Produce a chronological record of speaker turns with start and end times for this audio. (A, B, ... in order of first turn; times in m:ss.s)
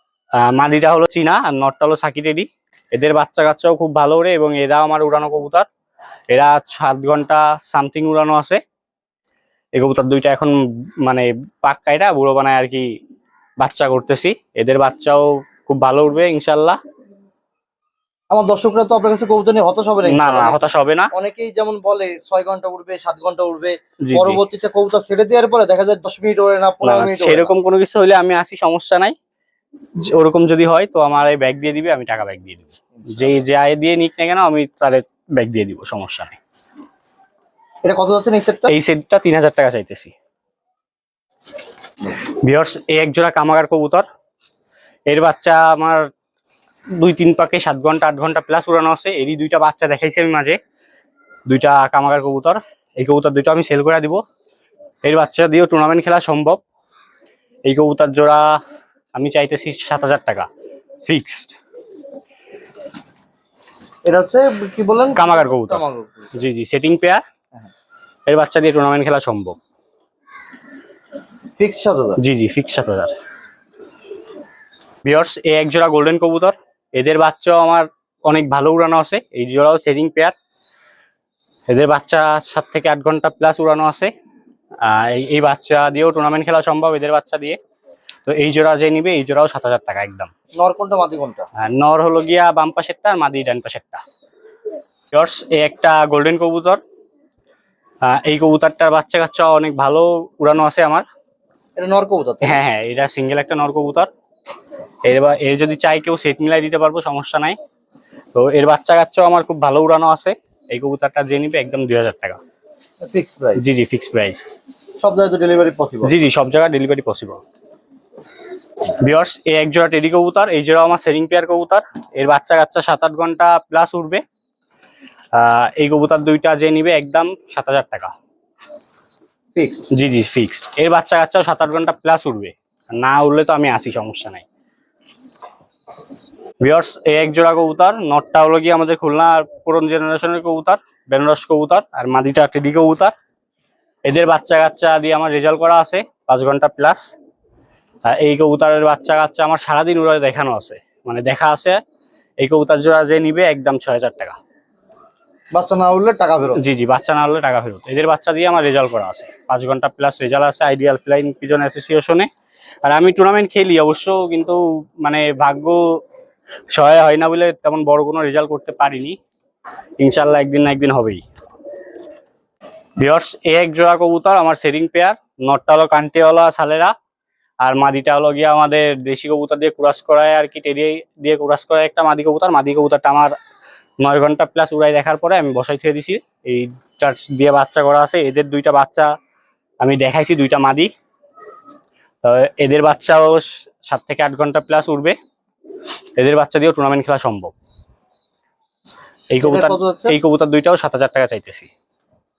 0:00.4-0:05.7 A
0:06.3-0:08.6 A
0:09.8-0:12.9 A
0:13.6-0:16.8 A
0:18.3-0:20.6 B
0:20.1-0:21.1 A
0:21.1-0:27.5 B
0:24.0-0:24.4 A
0:26.8-0:29.2 A
0:30.0-0:36.4 A
0:33.0-0:33.3 B
0:37.8-0:38.7 B
0:38.7-0:40.1 A
0:42.4-0:44.0 A
0:45.1-0:46.1 A
0:47.0-0:50.6 A
0:51.5-0:54.2 A
0:55.0-0:56.6 A
0:57.7-0:58.4 A
0:59.2-1:00.5 A
1:01.1-1:01.6 A
1:04.1-1:06.3 B
1:05.2-1:05.8 A
1:06.3-1:07.2 A
1:08.3-1:09.6 A
1:11.6-1:12.2 B
1:12.2-1:13.1 A
1:15.0-1:20.3 A
1:21.7-1:24.1 A
1:24.8-1:27.6 A
1:28.3-1:30.3 A
1:30.6-1:31.4 B
1:31.6-1:34.0 A
1:35.1-1:36.8 A
1:38.0-1:41.0 A
1:41.8-1:42.6 B
1:42.4-1:44.1 A
1:45.0-1:47.6 A
1:48.3-1:52.4 A
1:53.0-1:53.6 B
1:53.6-1:54.5 A
1:55.0-1:56.1 B
1:56.0-1:57.4 A
1:59.0-2:04.2 A
2:05.3-2:08.1 A
2:09.6-2:09.9 B
2:09.9-2:14.4 A
2:16.6-2:23.1 A
2:24.1-2:27.0 A
2:28.1-2:31.8 A
2:32.4-2:34.4 A
2:35.5-2:36.6 B
2:36.6-2:42.3 A
2:42.8-2:45.8 A
2:46.7-2:49.2 A
2:50.0-2:51.2 A
2:53.0-2:56.9 A
2:57.6-3:03.3 A
3:04.0-3:09.1 A
3:09.8-3:10.9 A
3:12.2-3:15.2 A
3:16.2-3:17.5 A
3:19.3-3:21.7 A
3:19.4-3:20.2 B